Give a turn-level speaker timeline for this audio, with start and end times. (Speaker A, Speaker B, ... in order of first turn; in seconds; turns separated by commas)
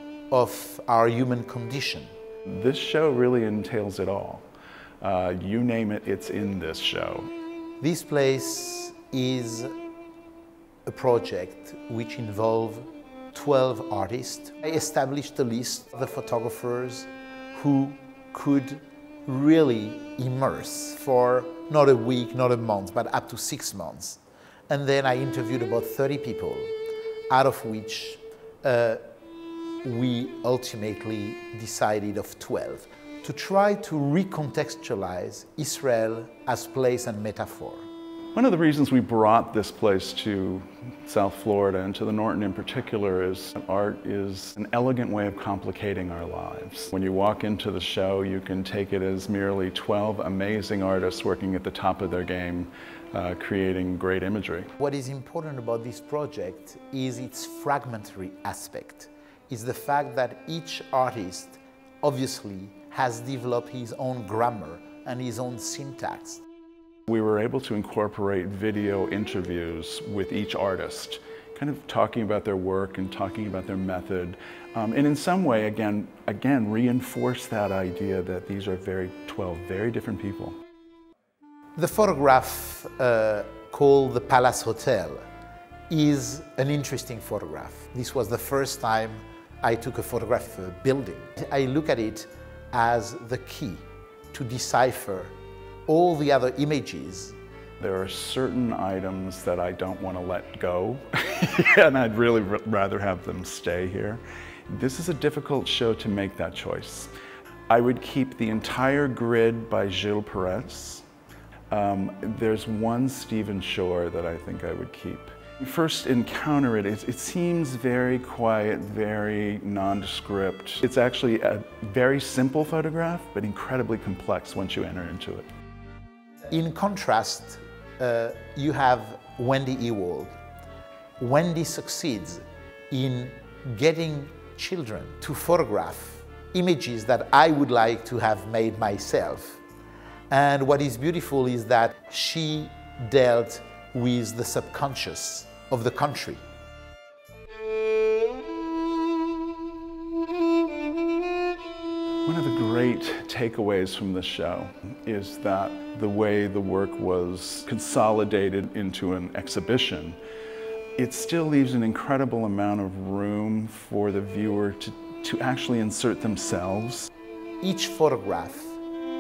Speaker A: 0.3-2.1, Speaker B: 2.5-4.5, Speaker B: 5.0-7.3, Speaker A: 7.8-9.7, Speaker A: 10.9-26.7, Speaker A: 27.3-29.0, Speaker A: 29.8-37.9, Speaker B: 38.4-54.7, Speaker A: 54.8-66.4, Speaker B: 67.1-80.6, Speaker A: 81.8-85.2, Speaker A: 85.9-95.3, Speaker A: 95.9-97.4, Speaker B: 97.8-107.1, Speaker B: 107.7-111.0, Speaker B: 111.7-125.5, Speaker A: 126.5-130.3, Speaker A: 131.2-139.6, Speaker A: 140.3-146.4, Speaker B: 152.2-160.2, Speaker B: 161.0-167.1, Speaker A: 167.6-168.8